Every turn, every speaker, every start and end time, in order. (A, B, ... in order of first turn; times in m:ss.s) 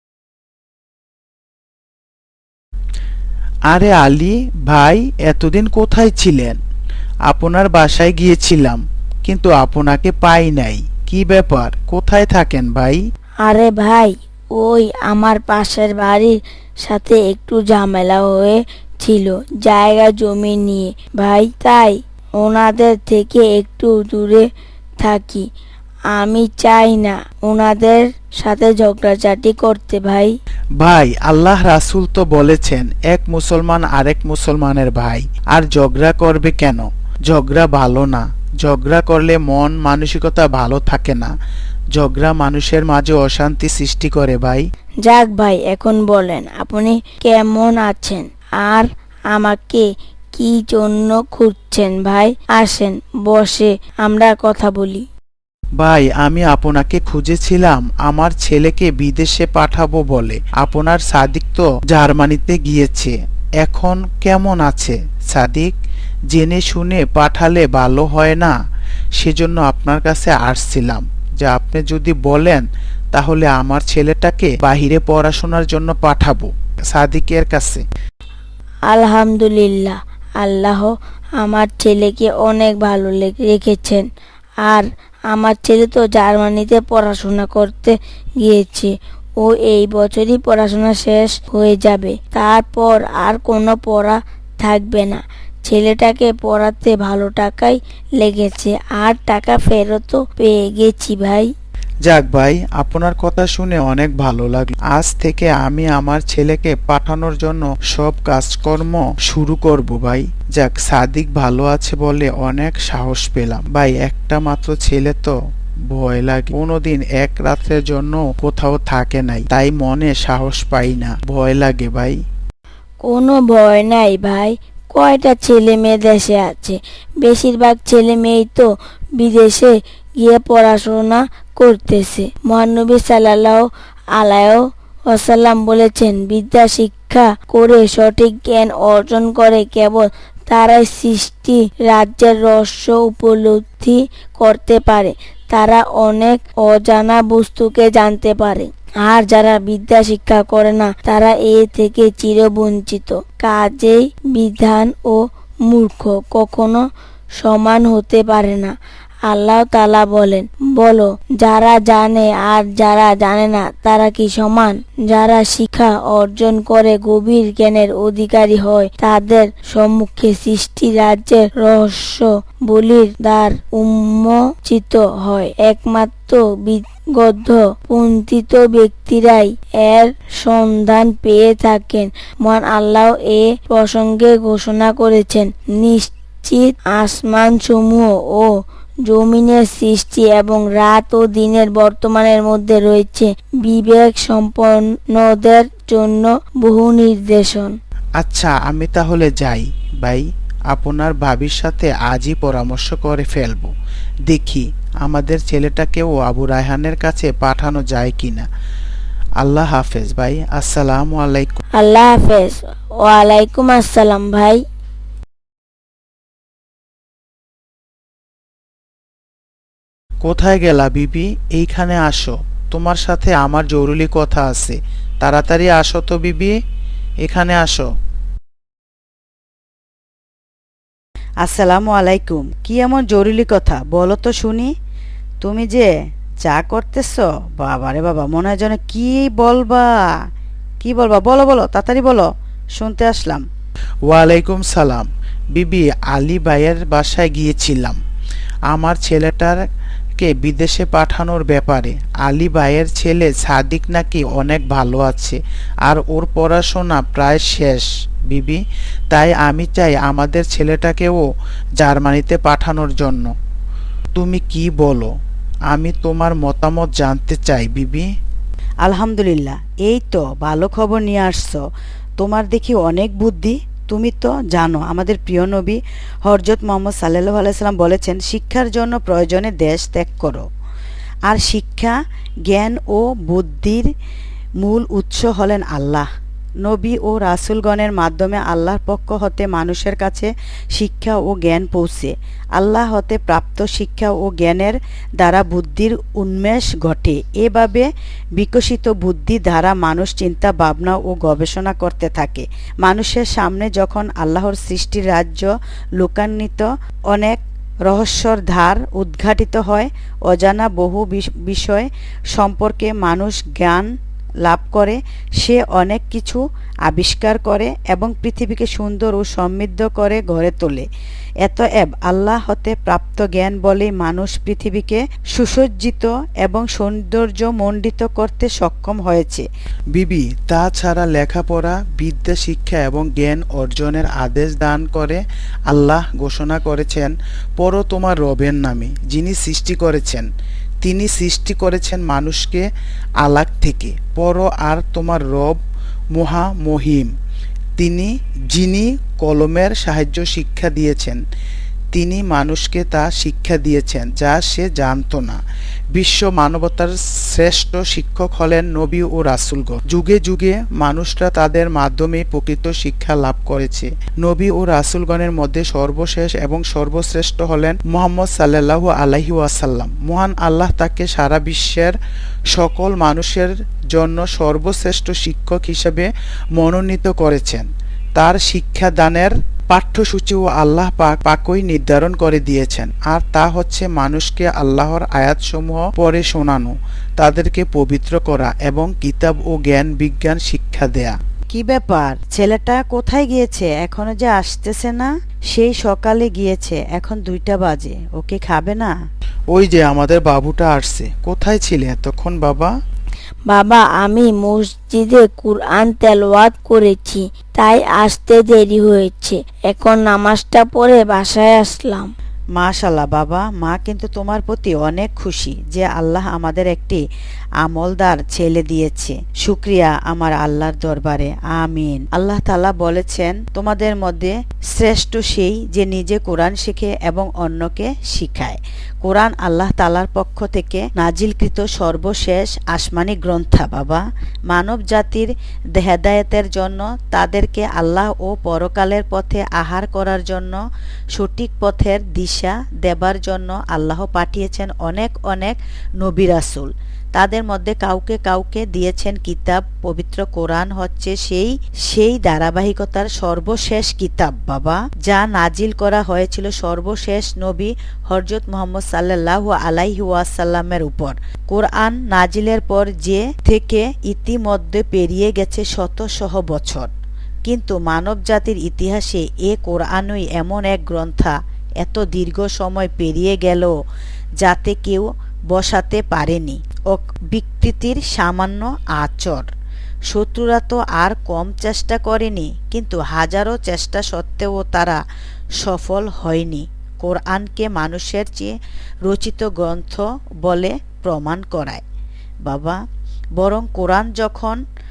0:03.7-0:06.6 A
0:07.3-0:13.0 A
0:13.4-0:24.5 B
0:25.0-0:25.4 B
0:26.2-0:30.3 B
0:30.8-0:41.3 A
0:42.0-0:44.6 A
0:45.0-0:55.1 B
0:55.8-1:05.7 A
1:06.3-1:08.5 A
1:09.2-1:17.8 A
1:18.9-1:24.1 B
1:24.7-1:41.5 B
1:42.1-1:55.3 A
1:55.9-2:02.2 A
2:03.0-2:13.6 B
2:14.2-2:36.8 B
2:37.4-2:38.7 B
2:39.3-3:08.5 B
3:09.1-3:17.7 B
3:18.2-3:23.7 A
3:24.3-3:28.5 A
3:29.4-3:31.6 A
3:31.8-3:34.6 B
3:40.2-3:46.6 A
3:47.2-3:47.9 A
3:51.4-3:54.7 C
3:55.4-3:55.9 C
3:56.4-3:59.9 C
4:00.8-4:03.4 C
4:04.1-4:08.0 A
4:08.7-4:09.6 A
4:10.2-4:21.3 A
4:21.8-4:23.3 A
4:24.2-4:25.1 A
4:25.7-4:28.1 A
4:28.8-4:31.6 C
4:32.2-4:40.4 C
4:41.3-4:41.9 C
4:42.5-4:43.9 C
4:44.6-4:46.1 C
4:46.6-5:13.9 C
5:14.5-5:20.9 C
5:21.4-5:29.5 C
5:29.9-5:40.3 A
5:40.8-5:42.7 A
5:43.2-5:45.6 A
5:46.2-5:47.1 A
5:47.8-5:51.2 A
5:51.9-5:55.4 A
5:56.0-6:12.0 A
6:12.5-6:31.2 A
6:31.5-6:38.9 C
6:39.5-6:42.7 A
6:43.5-6:52.1 B
6:52.6-6:57.0 C
6:57.6-7:20.6 C
7:21.2-7:46.9 C
7:47.5-7:53.7 C
7:54.4-7:59.5 C
8:00.1-8:05.0 C
8:05.6-8:08.5 C
8:09.1-8:11.8 C
8:12.5-8:12.8 C
8:13.4-8:14.6 C